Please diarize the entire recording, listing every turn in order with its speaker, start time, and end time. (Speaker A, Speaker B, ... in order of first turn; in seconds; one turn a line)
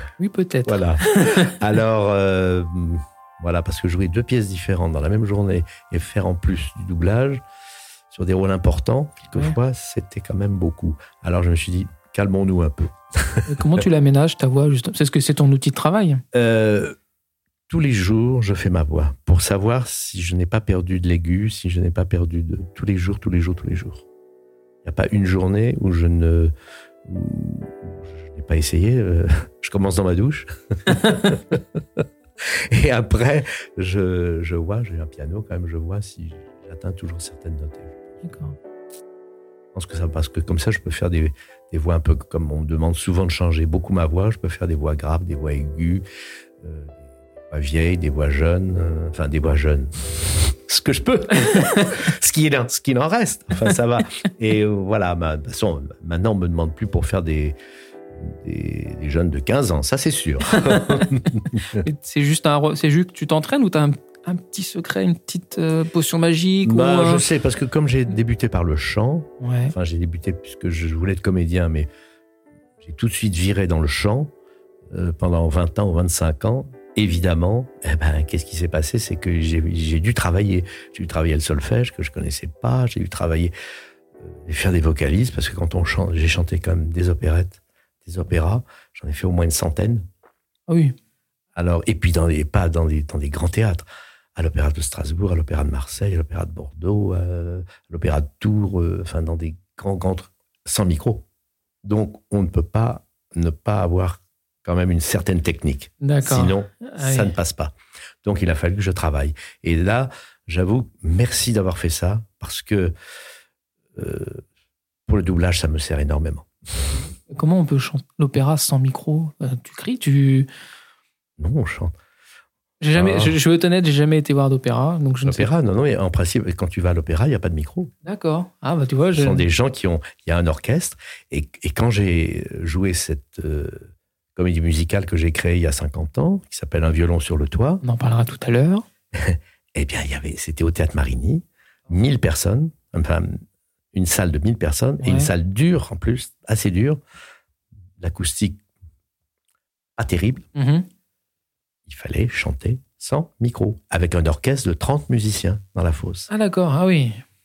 Speaker A: 0.2-1.5
Speaker B: 0.7-7.4
Speaker B: 8.1-13.8
Speaker A: 13.5-16.2
Speaker B: 16.3-16.9
Speaker B: 17.7-24.0
Speaker B: 24.8-26.5
Speaker B: 27.0-38.4
Speaker A: 30.9-31.3
Speaker A: 38.2-38.5
Speaker B: 39.7-46.0
Speaker B: 46.6-57.5
Speaker A: 51.4-51.9
Speaker B: 58.1-61.8
Speaker A: 60.5-61.1
Speaker A: 61.8-67.3
Speaker B: 66.6-71.9
Speaker A: 69.4-69.7
Speaker B: 72.8-74.3
Speaker B: 74.9-83.5
Speaker B: 84.2-90.0
Speaker A: 90.7-90.9
Speaker B: 91.5-93.8
Speaker B: 94.3-101.2
Speaker B: 101.8-112.9
Speaker A: 106.0-107.3
Speaker B: 113.9-114.4
Speaker B: 115.1-116.8
Speaker A: 117.3-120.5
Speaker B: 121.4-122.0
Speaker A: 122.8-125.5
Speaker B: 122.9-123.3
Speaker B: 125.2-127.9
Speaker A: 128.0-129.4
Speaker B: 129.1-137.8
Speaker A: 137.8-138.8
Speaker B: 139.1-143.4
Speaker B: 143.9-147.0
Speaker A: 145.0-145.3
Speaker B: 148.0-148.6
Speaker B: 150.0-150.4
Speaker A: 150.5-150.9
Speaker B: 151.8-156.3
Speaker A: 156.3-157.2